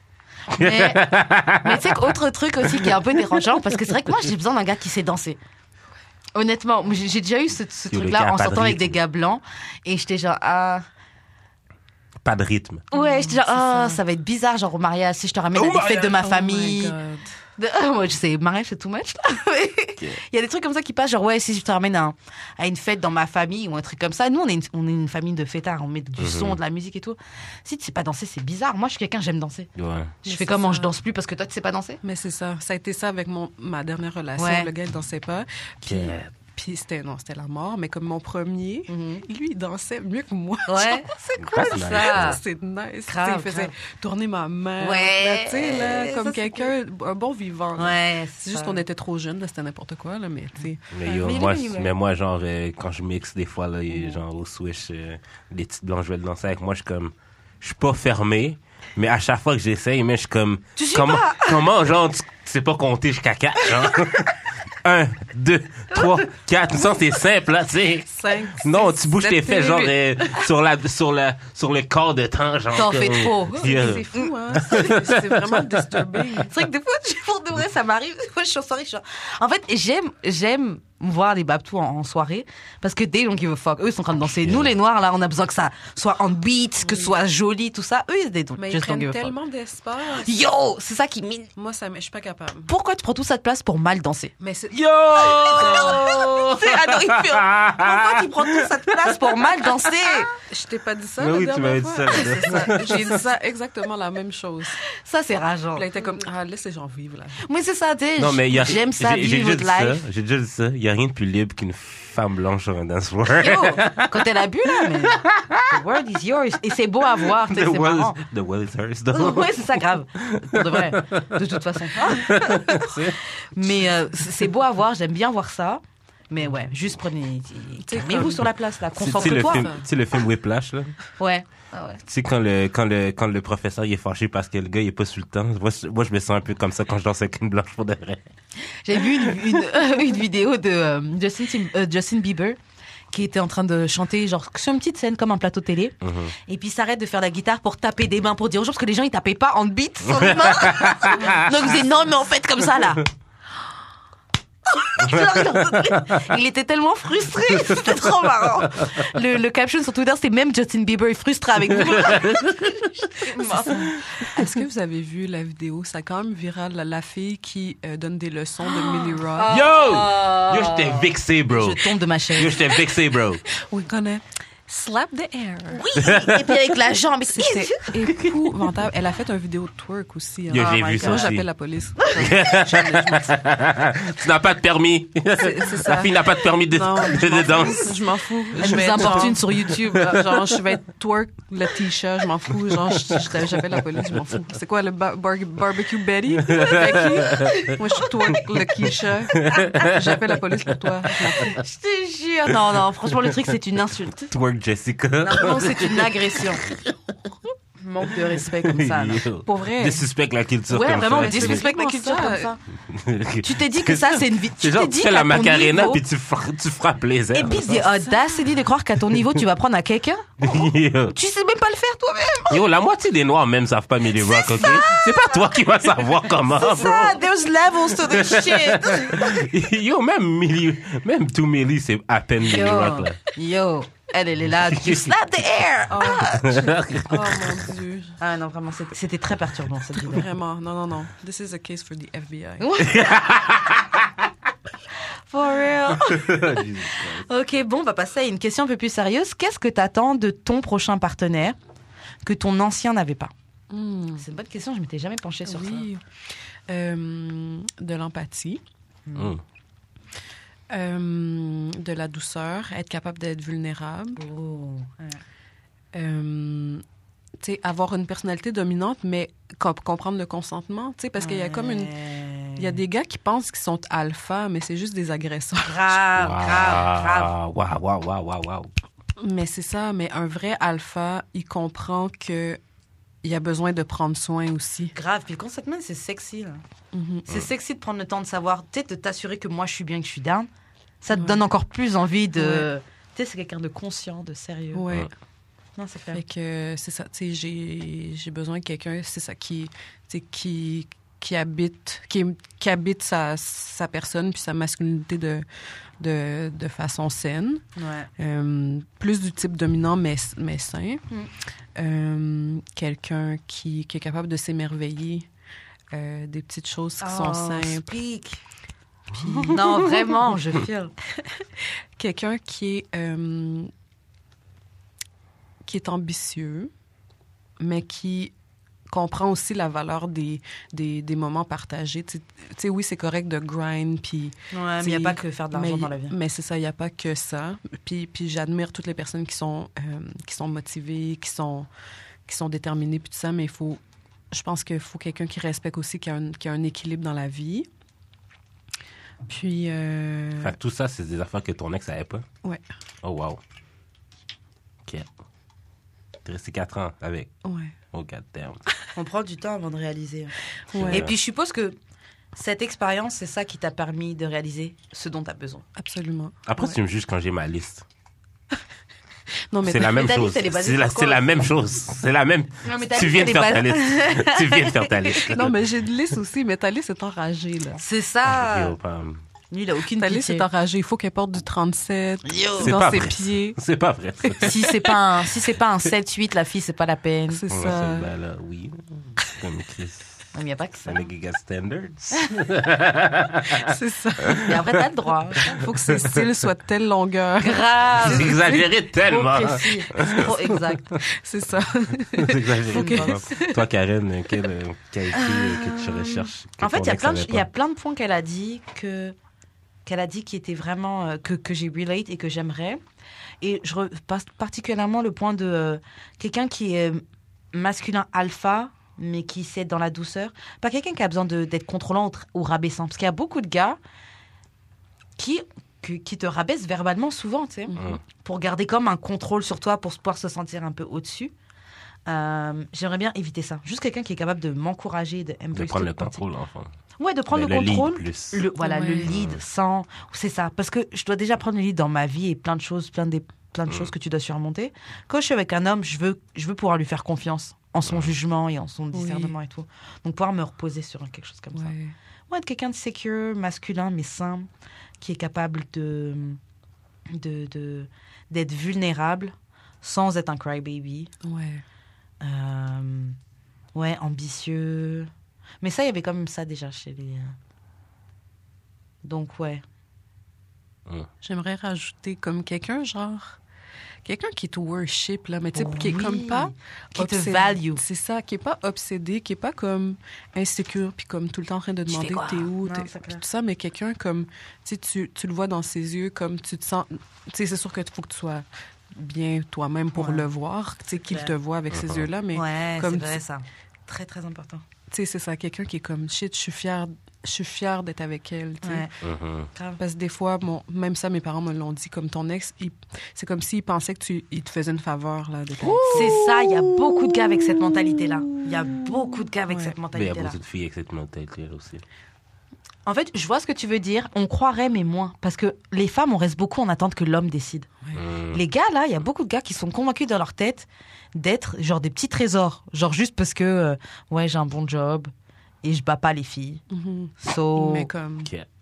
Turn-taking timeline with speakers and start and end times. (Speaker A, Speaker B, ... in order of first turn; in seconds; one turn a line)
Speaker A: 0.5-5.4
Speaker B: 0.5-2.2
Speaker B: 2.7-3.0
Speaker A: 6.3-10.8
Speaker B: 7.9-9.0
Speaker B: 12.2-12.8
Speaker A: 12.9-17.0
Speaker C: 12.9-14.0
Speaker C: 15.7-17.4
Speaker A: 17.6-29.7
Speaker B: 26.2-26.6
Speaker B: 29.8-30.2
Speaker A: 30.2-32.0
Speaker C: 30.2-30.9
Speaker C: 32.0-50.9
Speaker A: 34.4-34.7
Speaker B: 35.9-36.3
Speaker A: 38.9-39.2
Speaker A: 40.7-42.4
Speaker B: 41.4-42.4
Speaker A: 43.1-43.7
Speaker A: 44.8-46.7
Speaker A: 47.8-48.8
Speaker B: 50.9-76.4
Speaker A: 51.0-51.9
Speaker A: 60.8-61.7
Speaker A: 65.9-66.2
Speaker C: 68.1-70.4
Speaker A: 72.7-74.3
Speaker C: 73.6-76.5
Speaker A: 76.4-89.3
Speaker B: 84.4-84.7
Speaker C: 86.8-87.2
Speaker C: 88.6-90.4
Speaker A: 90.1-91.5
Speaker C: 91.6-92.7
Speaker A: 92.7-94.3
Speaker C: 94.4-96.3
Speaker B: 94.7-100.2
Speaker A: 95.2-100.3
Speaker C: 100.4-104.8
Speaker B: 101.2-103.3
Speaker A: 104.9-106.1
Speaker C: 105.8-107.4
Speaker A: 107.4-110.0
Speaker B: 108.2-115.8
Speaker A: 113.3-118.2
Speaker B: 117.2-123.2
Speaker A: 119.1-129.7
Speaker C: 127.9-128.5
Speaker B: 129.0-130.9
Speaker C: 129.0-129.9
Speaker A: 131.2-132.0
Speaker B: 132.1-138.3
Speaker A: 138.6-142.6
Speaker B: 139.0-139.6
Speaker A: 143.1-145.9
Speaker B: 146.0-146.3
Speaker A: 146.5-153.1
Speaker B: 150.1-151.5
Speaker A: 154.7-164.4
Speaker B: 155.0-156.3
Speaker B: 157.7-157.9
Speaker B: 161.7-162.8
Speaker C: 163.5-169.5
Speaker A: 168.7-172.8
Speaker B: 169.5-173.4
Speaker C: 173.5-175.8
Speaker A: 175.7-178.5
Speaker B: 176.0-176.5
Speaker C: 177.3-183.3
Speaker B: 180.5-181.5
Speaker A: 180.5-181.3
Speaker A: 182.0-182.5
Speaker B: 182.1-188.0
Speaker C: 185.3-201.6
Speaker B: 188.5-190.6
Speaker A: 188.6-190.4
Speaker B: 192.9-193.8
Speaker B: 196.4-197.7
Speaker A: 196.5-198.6
Speaker B: 199.3-201.6
Speaker A: 199.5-200.0
Speaker A: 201.3-204.3
Speaker B: 204.3-207.1
Speaker A: 205.2-206.7
Speaker A: 207.8-209.2
Speaker B: 208.1-211.6
Speaker C: 209.4-210.1
Speaker A: 210.7-212.6
Speaker C: 210.9-212.6
Speaker B: 212.9-217.9
Speaker A: 213.4-216.0
Speaker A: 217.3-220.3
Speaker C: 217.8-218.4
Speaker B: 220.4-221.2
Speaker A: 221.1-222.6
Speaker B: 222.5-227.2
Speaker A: 224.2-225.3
Speaker A: 226.5-229.4
Speaker B: 227.9-233.2
Speaker A: 232.4-236.7
Speaker B: 234.6-235.1
Speaker C: 235.9-236.3
Speaker B: 236.3-237.6
Speaker C: 237.1-238.2
Speaker A: 238.2-240.3
Speaker C: 239.9-242.7
Speaker A: 242.6-243.2
Speaker B: 242.8-244.1
Speaker A: 245.3-251.6
Speaker B: 245.9-247.3
Speaker A: 252.2-253.3
Speaker C: 253.7-254.2
Speaker A: 254.2-255.9
Speaker C: 255.5-256.0
Speaker C: 256.7-258.6
Speaker A: 259.1-259.4
Speaker B: 259.2-259.4
Speaker C: 260.7-264.2
Speaker A: 264.2-265.2
Speaker C: 265.9-266.8
Speaker C: 267.4-271.9
Speaker A: 271.2-272.8
Speaker C: 272.6-275.9
Speaker A: 275.6-277.3
Speaker B: 276.1-278.7
Speaker C: 279.2-282.6
Speaker C: 283.2-284.9
Speaker A: 284.9-286.6
Speaker C: 286.9-287.3
Speaker A: 287.3-290.5
Speaker A: 291.0-294.9
Speaker C: 291.1-291.4
Speaker C: 292.4-292.7
Speaker C: 294.7-295.1
Speaker A: 295.8-296.2
Speaker C: 296.1-305.5
Speaker C: 306.0-307.6
Speaker A: 307.8-308.1
Speaker C: 308.2-311.1
Speaker C: 311.8-315.3
Speaker C: 315.9-317.9
Speaker A: 317.0-318.4
Speaker C: 319.1-320.0
Speaker A: 319.4-320.9
Speaker C: 321.6-323.7
Speaker C: 325.6-326.7
Speaker C: 327.6-328.3
Speaker C: 328.9-341.7
Speaker A: 334.5-336.1
Speaker C: 342.3-343.8
Speaker C: 344.3-347.7
Speaker C: 349.3-350.6
Speaker B: 350.4-352.3
Speaker B: 353.0-353.4
Speaker B: 354.9-355.1
Speaker B: 356.2-357.3
Speaker C: 357.4-357.8
Speaker B: 357.9-358.6
Speaker A: 358.9-360.3
Speaker C: 360.7-361.1
Speaker B: 360.7-361.2
Speaker A: 360.9-361.8
Speaker A: 362.4-365.6
Speaker C: 365.8-366.8
Speaker B: 366.5-367.9
Speaker C: 369.5-370.1
Speaker B: 369.6-375.6
Speaker A: 369.9-371.4
Speaker A: 372.6-375.4
Speaker C: 375.3-377.8
Speaker A: 377.8-378.8
Speaker B: 378.3-379.2
Speaker A: 379.5-380.5
Speaker C: 379.9-383.6
Speaker A: 382.2-382.7
Speaker B: 382.6-384.7
Speaker A: 384.4-387.4
Speaker C: 387.3-388.1
Speaker B: 387.5-390.2
Speaker A: 390.3-391.0
Speaker B: 390.9-394.7
Speaker C: 393.6-394.5
Speaker A: 394.4-395.6
Speaker C: 395.4-398.5
Speaker B: 395.9-396.2
Speaker A: 397.4-401.0
Speaker B: 398.0-401.0
Speaker C: 401.1-403.6
Speaker B: 402.1-407.5
Speaker A: 402.7-403.5
Speaker A: 405.1-409.2
Speaker A: 409.9-412.8
Speaker A: 413.4-423.8
Speaker A: 425.2-431.3
Speaker C: 427.7-428.0
Speaker A: 432.1-436.2
Speaker B: 435.5-436.7
Speaker A: 437.0-451.7
Speaker B: 437.3-438.4
Speaker C: 438.6-439.1
Speaker B: 439.1-439.4
Speaker B: 447.9-448.1
Speaker C: 448.9-449.3
Speaker C: 451.6-451.9
Speaker A: 452.3-454.5
Speaker A: 455.0-456.4
Speaker A: 457.1-461.1
Speaker C: 461.2-461.6
Speaker A: 462.2-463.2
Speaker A: 463.8-465.1
Speaker A: 465.6-467.4
Speaker A: 469.0-469.6
Speaker C: 471.2-473.4
Speaker C: 474.1-493.2
Speaker A: 475.6-477.8
Speaker A: 481.9-483.2
Speaker A: 489.9-490.3
Speaker A: 491.0-491.3
Speaker B: 491.7-492.1
Speaker A: 492.3-494.6
Speaker C: 494.9-498.9
Speaker A: 498.6-498.9
Speaker B: 499.0-499.5
Speaker A: 499.6-499.8
Speaker C: 499.8-506.7
Speaker B: 505.6-506.3
Speaker A: 505.9-510.4
Speaker C: 507.4-509.8
Speaker B: 509.9-511.8
Speaker A: 512.9-517.7
Speaker B: 517.9-518.4
Speaker A: 518.3-525.1
Speaker A: 525.6-526.6
Speaker C: 526.7-528.3
Speaker A: 527.2-527.9